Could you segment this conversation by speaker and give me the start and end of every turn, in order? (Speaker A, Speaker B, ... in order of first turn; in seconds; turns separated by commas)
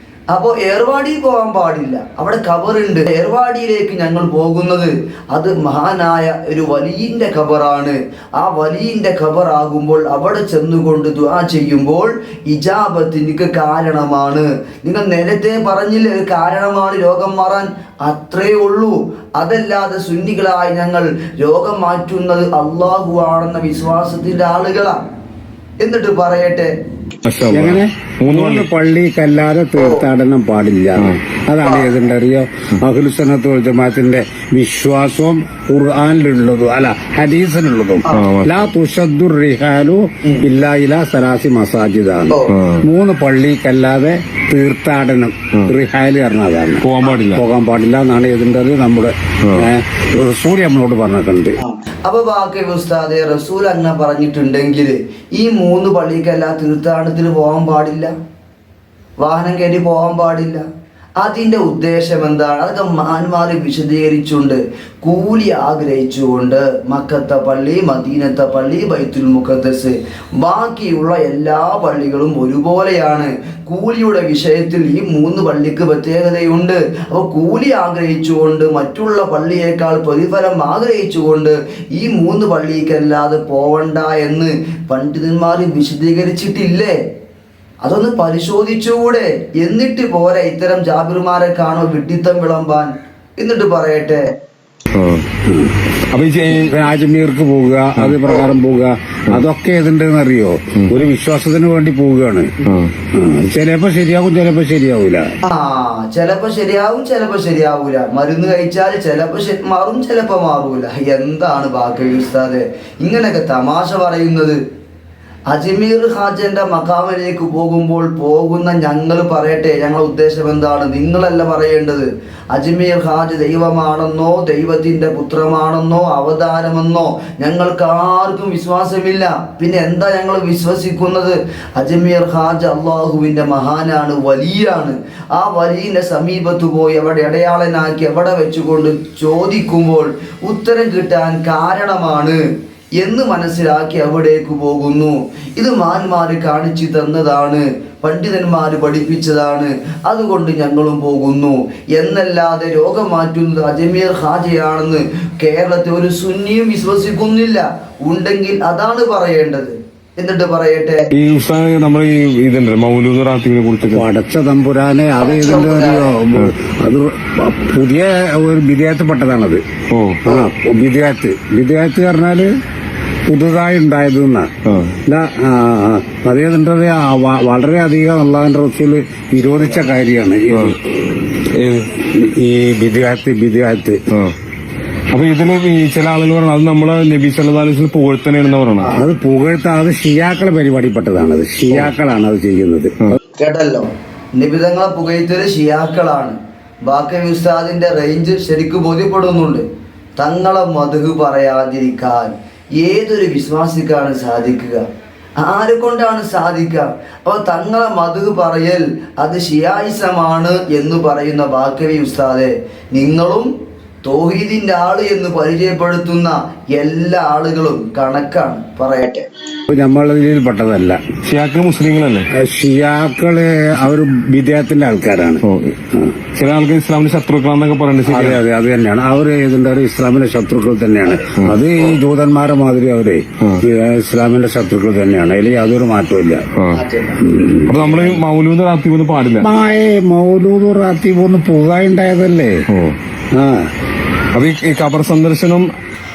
Speaker A: 0.3-25.0, Speaker A: 25.8-26.7, Speaker B: 27.2-28.7, Speaker C: 27.5-51.6, Speaker A: 29.8-30.1, Speaker A: 31.6-31.9, Speaker B: 38.1-38.7, Speaker B: 42.5-42.8, Speaker B: 46.8-47.5, Speaker A: 51.6-58.1, Speaker A: 59.2-60.6, Speaker A: 61.2-87.0, Speaker A: 87.8-94.3, Speaker B: 94.9-95.2, Speaker C: 95.5-95.7, Speaker B: 96.1-96.8, Speaker C: 96.5-102.6, Speaker A: 98.3-98.5, Speaker B: 100.8-101.0, Speaker B: 102.6-103.0, Speaker C: 103.1-105.3, Speaker A: 105.5-114.6, Speaker A: 115.5-142.4, Speaker A: 143.0-161.1, Speaker B: 161.1-164.1, Speaker C: 163.8-169.6, Speaker A: 165.2-166.2, Speaker B: 169.9-170.2, Speaker C: 170.2-172.5, Speaker C: 173.3-174.5, Speaker B: 174.7-175.0, Speaker C: 175.0-180.8, Speaker B: 180.5-180.8, Speaker B: 181.5-181.9, Speaker C: 182.0-184.0, Speaker B: 185.1-189.0, Speaker C: 188.9-193.2, Speaker A: 193.4-199.7, Speaker A: 200.2-204.8, Speaker A: 205.4-213.5, Speaker A: 214.1-219.3, Speaker C: 219.7-221.0, Speaker B: 221.2-222.3, Speaker C: 222.3-226.2, Speaker B: 225.4-225.8, Speaker B: 226.3-228.4, Speaker C: 228.1-236.4, Speaker B: 236.6-236.8, Speaker A: 236.7-237.2, Speaker C: 237.2-238.2, Speaker B: 237.7-239.5, Speaker C: 239.4-242.6, Speaker B: 242.7-243.0, Speaker C: 243.3-243.7, Speaker B: 244.3-245.7